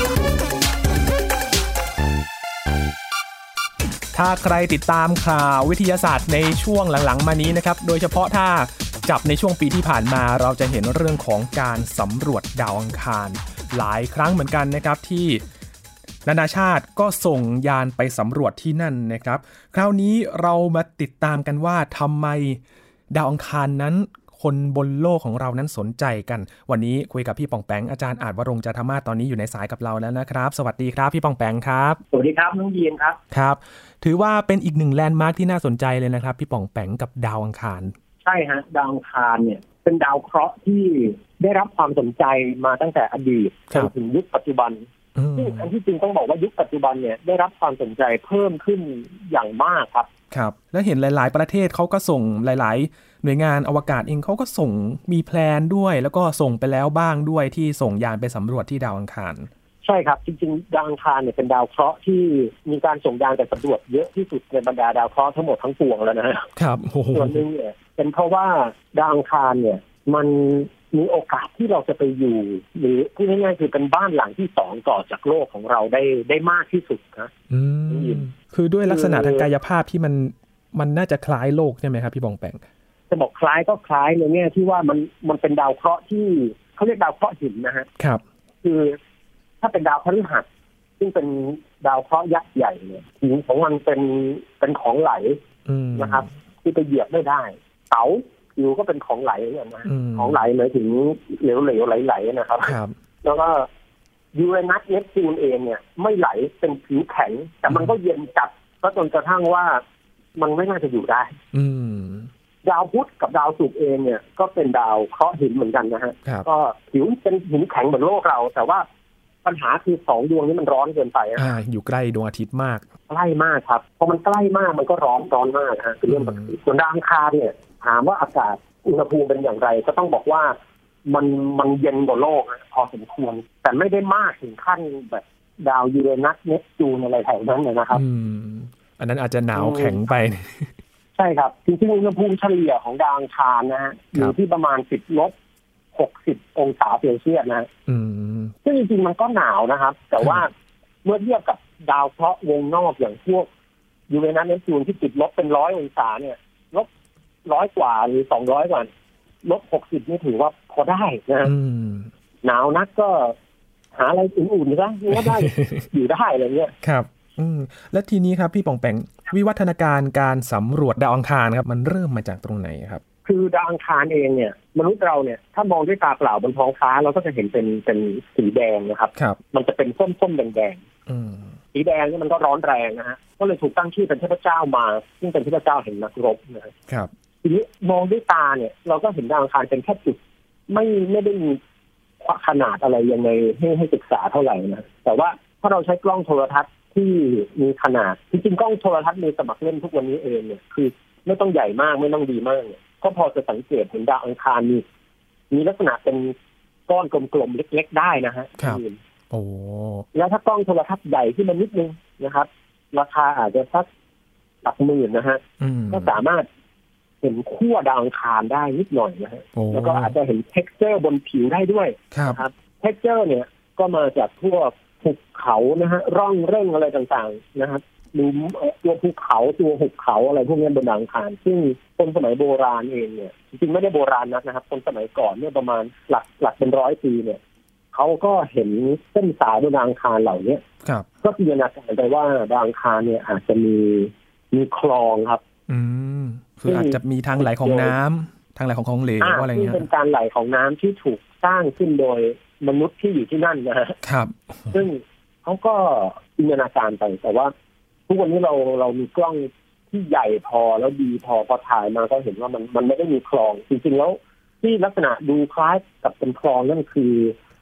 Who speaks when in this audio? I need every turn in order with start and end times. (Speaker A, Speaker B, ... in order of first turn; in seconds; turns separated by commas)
Speaker A: 4.1-15.4, Speaker A: 16.2-32.0, Speaker B: 32.1-33.2, Speaker A: 33.3-37.9, Speaker B: 38.2-50.1, Speaker A: 45.1-45.7, Speaker A: 50.3-59.5, Speaker B: 59.8-66.5, Speaker A: 66.5-67.4, Speaker B: 67.1-77.3, Speaker A: 77.5-82.6, Speaker B: 77.9-78.2, Speaker B: 78.9-79.5, Speaker B: 83.1-87.9, Speaker B: 88.6-89.0, Speaker B: 89.6-90.5, Speaker B: 91.0-95.4, Speaker A: 95.7-96.3, Speaker B: 96.0-103.7, Speaker A: 99.8-100.4, Speaker A: 102.6-102.9, Speaker B: 104.3-109.8, Speaker B: 110.3-111.3, Speaker A: 111.5-112.3, Speaker B: 112.6-118.8, Speaker B: 119.4-121.4, Speaker A: 121.4-122.9, Speaker B: 123.1-138.0, Speaker A: 126.1-126.5, Speaker A: 137.9-140.7, Speaker B: 139.5-140.0, Speaker B: 141.2-145.3, Speaker B: 145.9-147.7, Speaker A: 147.9-148.5, Speaker B: 148.6-150.5, Speaker B: 151.0-153.5, Speaker B: 154.1-156.9, Speaker B: 157.4-158.9, Speaker B: 159.4-161.5, Speaker A: 161.4-162.1, Speaker B: 162.4-163.3, Speaker B: 163.9-166.7, Speaker A: 165.1-165.9, Speaker A: 166.8-173.0, Speaker B: 173.2-180.8, Speaker A: 181.1-181.6, Speaker B: 181.7-186.7, Speaker B: 187.4-190.2, Speaker B: 190.7-191.6, Speaker B: 192.2-204.8, Speaker B: 205.5-206.3, Speaker B: 206.9-209.0, Speaker A: 209.3-210.1, Speaker B: 210.1-213.9, Speaker B: 214.6-216.5, Speaker A: 215.6-216.1, Speaker B: 217.2-237.4, Speaker A: 219.6-220.1, Speaker A: 222.1-222.4, Speaker B: 237.9-240.6, Speaker B: 241.2-245.4, Speaker A: 245.7-249.8, Speaker B: 246.7-247.9, Speaker B: 249.2-254.0, Speaker A: 254.0-254.8, Speaker B: 254.7-257.5, Speaker B: 258.1-267.3